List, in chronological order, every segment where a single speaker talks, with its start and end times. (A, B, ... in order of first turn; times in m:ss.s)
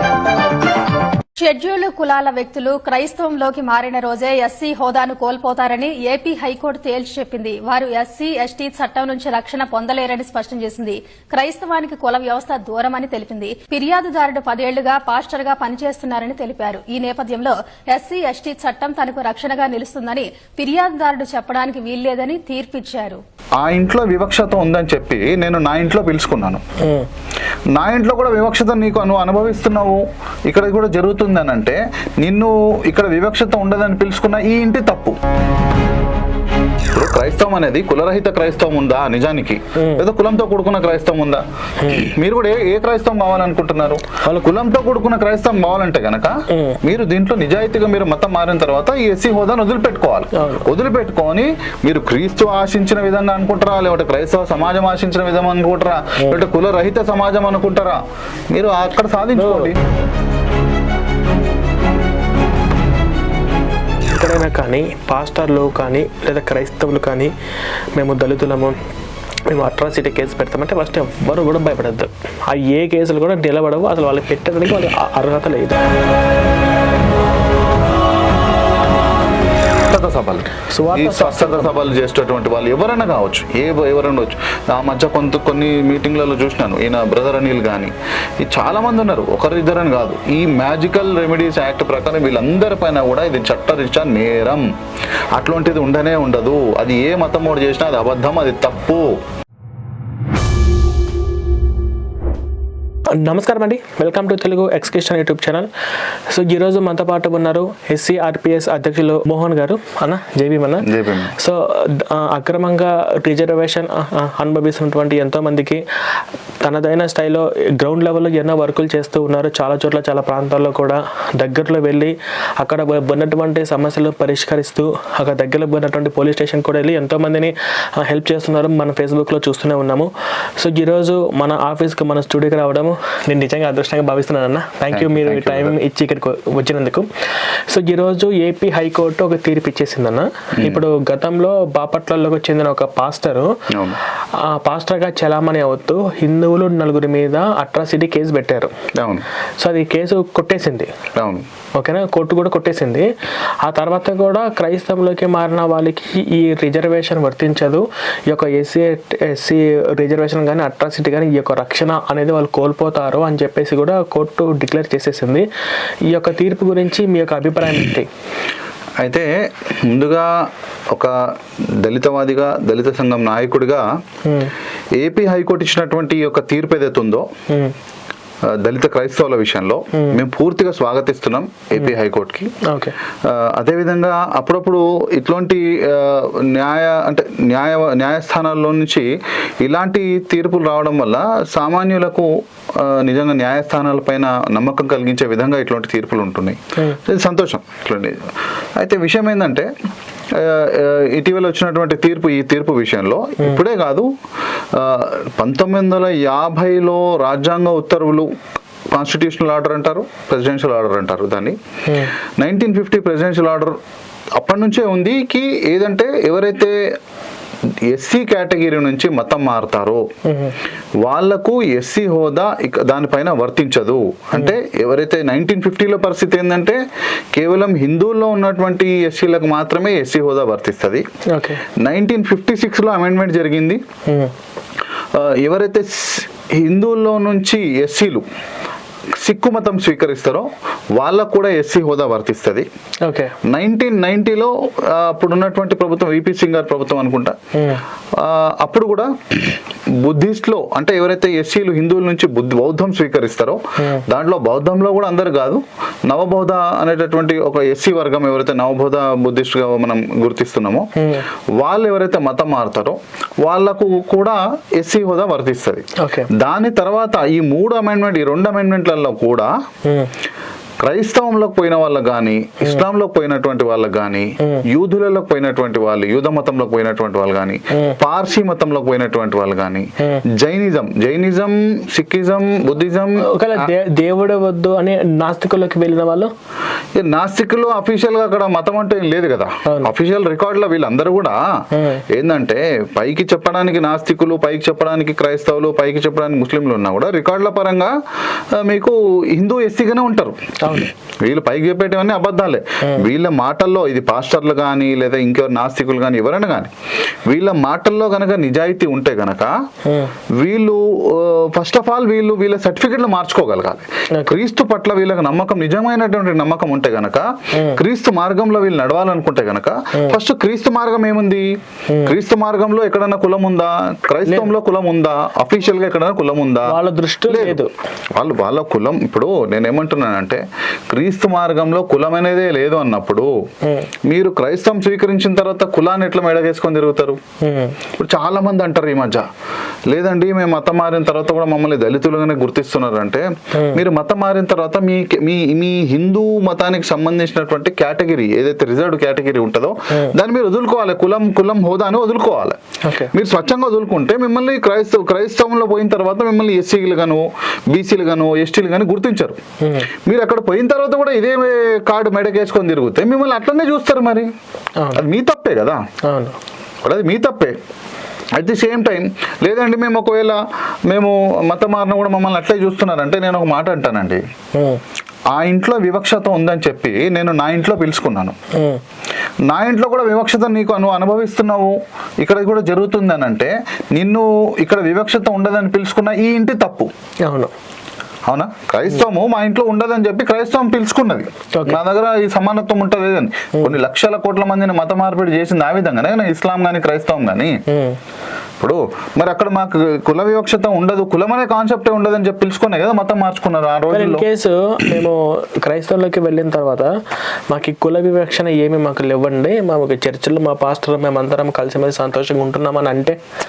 0:01.4-0:23.2 A
0:23.6-0:26.6 B
0:26.8-0:27.1 C
0:27.8-0:35.2 B
0:36.9-0:58.0 B
0:39.8-0:40.0 C
0:44.2-0:44.5 C
0:46.5-0:46.8 C
0:50.4-0:50.7 C
0:58.5-0:59.8 B
0:59.3-0:59.7 C
1:04.1-1:07.3 C
1:08.0-1:08.8 C
1:09.5-1:15.8 C
1:19.9-1:34.6 B
1:20.7-1:21.7 C
1:35.4-1:39.2 B
1:43.2-1:45.7 C
1:46.3-1:55.8 C
1:50.8-1:51.3 B
1:56.6-2:17.1 C
2:14.9-2:15.8 B
2:17.7-2:23.5 C
2:20.6-2:20.8 B
2:23.7-2:24.0 B
2:24.4-2:28.7 C
2:29.0-2:29.2 B
2:29.6-2:30.9 C
2:31.2-2:31.4 B
2:31.8-2:33.0 C
2:33.6-2:45.4 C
2:46.1-2:48.1 C
2:49.0-2:51.1 B
2:51.8-2:53.8 B
2:54.2-2:54.5 C
2:55.0-2:57.2 B
2:58.5-3:02.5 B
2:59.9-3:00.2 C
3:02.6-3:02.9 C
3:03.2-3:09.1 B
3:09.6-3:18.2 B
3:18.8-3:19.7 B
3:20.3-3:24.1 B
3:24.7-3:28.3 B
3:28.9-3:31.6 B
3:31.9-3:32.1 C
3:32.4-3:33.8 B
3:34.4-3:36.8 B
3:37.9-3:40.0 B
3:40.2-3:40.5 C
3:41.0-3:46.8 B
3:47.3-3:51.0 B
3:51.3-3:51.6 C
3:51.8-3:53.8 B
3:55.1-3:58.2 B
3:59.2-4:02.7 B
4:03.0-4:03.3 C
4:03.5-4:07.4 B
4:07.6-4:07.8 C
4:08.2-4:20.9 B
4:13.8-4:14.0 C
4:21.0-4:21.2 C
4:21.6-4:29.5 B
4:26.0-4:26.3 C
4:30.8-4:43.7 B
4:37.7-4:38.0 C
4:43.2-4:46.3 C
4:47.0-4:51.4 B
4:49.6-4:49.9 C
4:51.7-4:52.0 C
4:52.1-4:57.9 B
4:58.5-5:06.7 B
5:00.6-5:00.9 C
5:07.2-5:09.5 B
5:09.8-5:10.1 C
5:10.4-5:21.5 B
5:17.5-5:17.8 C
5:22.0-5:27.6 B
5:24.2-5:24.5 C
5:26.6-5:27.7 C
5:28.2-5:33.3 B
5:34.1-5:37.2 B
5:37.4-5:37.8 C
5:38.0-5:39.2 B
5:39.9-5:52.6 B
5:43.5-5:43.8 C
5:52.8-5:53.1 C
5:53.1-5:59.4 B
5:59.6-5:59.9 C
6:00.1-6:04.3 B
6:04.9-6:05.8 B
6:06.1-6:06.4 C
6:06.8-6:07.6 B
6:08.4-6:14.2 B
6:14.6-6:14.8 C
6:15.3-6:18.4 B
6:18.5-6:18.8 C
6:19.5-6:26.9 B
6:27.3-6:27.5 C
6:28.3-6:37.6 B
6:31.5-6:31.8 C
6:37.7-6:38.0 C
6:38.6-6:44.2 B
6:43.9-6:46.9 C
6:47.5-6:53.2 C